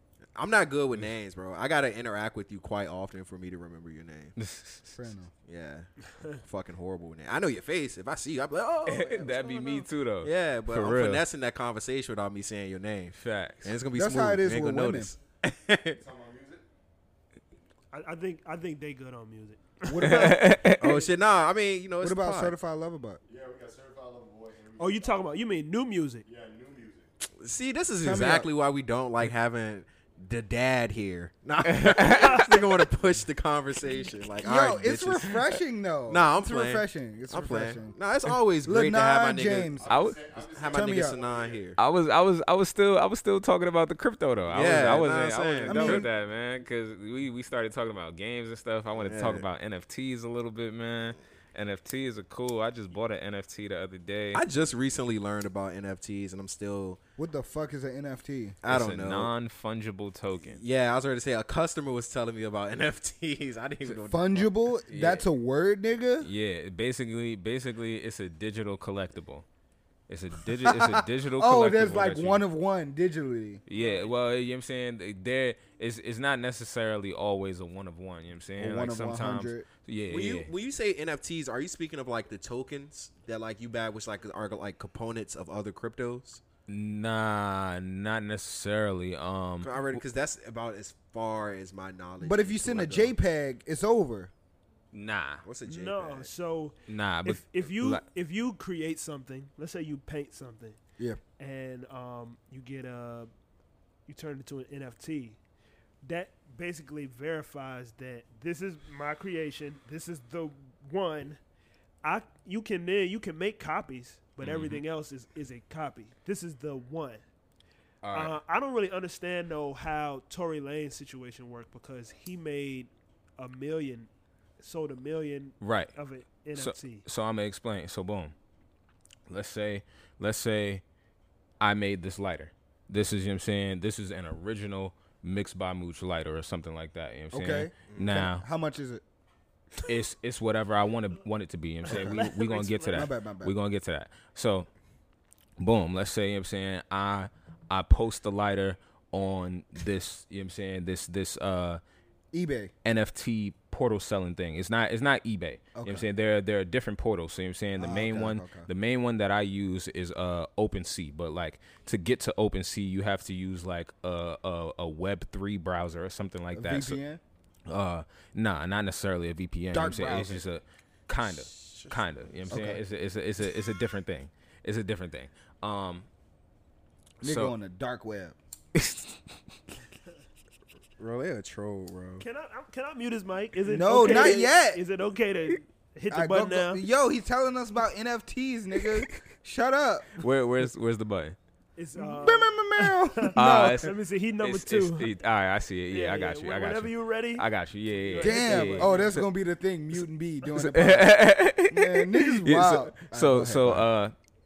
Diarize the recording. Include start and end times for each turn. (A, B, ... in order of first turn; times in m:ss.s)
0:00.4-0:04.4 A
0:04.4-0:05.0 B
0:04.9-0:05.3 C
0:05.5-0:16.0 A
0:08.9-0:11.2 B
0:13.2-0:13.7 B
0:13.9-0:15.1 C
0:15.9-0:16.6 D
0:17.9-0:20.4 E
0:19.8-0:20.6 C
0:20.0-0:21.0 B
0:20.8-0:22.5 A
0:22.0-0:23.2 C
0:23.3-0:25.3 D
0:24.8-0:26.2 E
0:26.3-0:27.1 D
0:27.4-0:41.8 A
0:28.0-0:28.5 C
0:31.7-0:32.6 B
0:34.4-0:38.0 C
0:38.6-0:39.9 C
0:39.8-0:41.7 D
0:39.9-0:40.2 B
0:40.7-0:41.2 C
0:41.8-0:54.4 B
0:44.5-0:46.1 A
0:45.6-0:46.1 C
0:49.0-0:49.4 A
0:54.3-0:57.0 A
0:57.2-0:58.6 C
0:58.6-0:59.3 A
0:58.7-1:00.6 B
1:00.5-1:04.5 A
1:04.1-1:06.3 C
1:04.9-1:05.3 B
1:06.2-1:09.5 B
1:10.1-1:12.4 B
1:10.6-1:13.6 C
1:13.7-1:20.5 B
1:18.6-1:19.7 C
1:20.1-1:26.4 A
1:26.7-1:30.0 B
1:29.6-1:33.1 A
1:32.2-1:34.3 C
1:34.9-1:35.4 B
1:35.4-1:36.3 A
1:35.6-1:40.8 E
1:36.9-1:38.0 B
1:41.4-1:43.3 E
1:44.1-1:45.4 E
1:46.0-1:51.4 E
1:52.0-1:57.2 E
1:54.4-1:54.8 B
1:58.0-1:58.4 B
1:58.1-2:07.0 E
2:05.6-2:06.0 B
2:06.5-2:08.3 B
2:09.3-2:10.8 B
2:11.6-2:18.4 B
2:17.3-2:19.0 C
2:17.9-2:18.2 A
2:19.9-2:24.7 B
2:21.9-2:22.2 C
2:21.9-2:23.1 E
2:22.9-2:23.5 C
2:25.6-2:31.8 B
2:32.3-2:32.7 C
2:32.8-2:47.0 B
2:35.8-2:36.1 C
2:37.8-2:38.7 C
2:46.5-2:47.2 C
2:47.7-2:56.1 B
2:49.7-2:50.5 C
2:51.2-2:52.8 A
2:57.2-2:57.6 B
2:57.2-2:58.4 C
2:58.8-2:59.2 B
3:01.0-3:02.2 A
3:02.2-3:06.8 E
3:03.7-3:04.8 C
3:06.1-3:10.1 C
3:10.2-3:11.4 B
3:11.8-3:15.1 E
3:12.0-3:13.9 C
3:13.4-3:19.2 B
3:15.9-3:17.5 E
3:18.0-3:19.1 E
3:18.2-3:23.9 C
3:20.5-3:24.1 B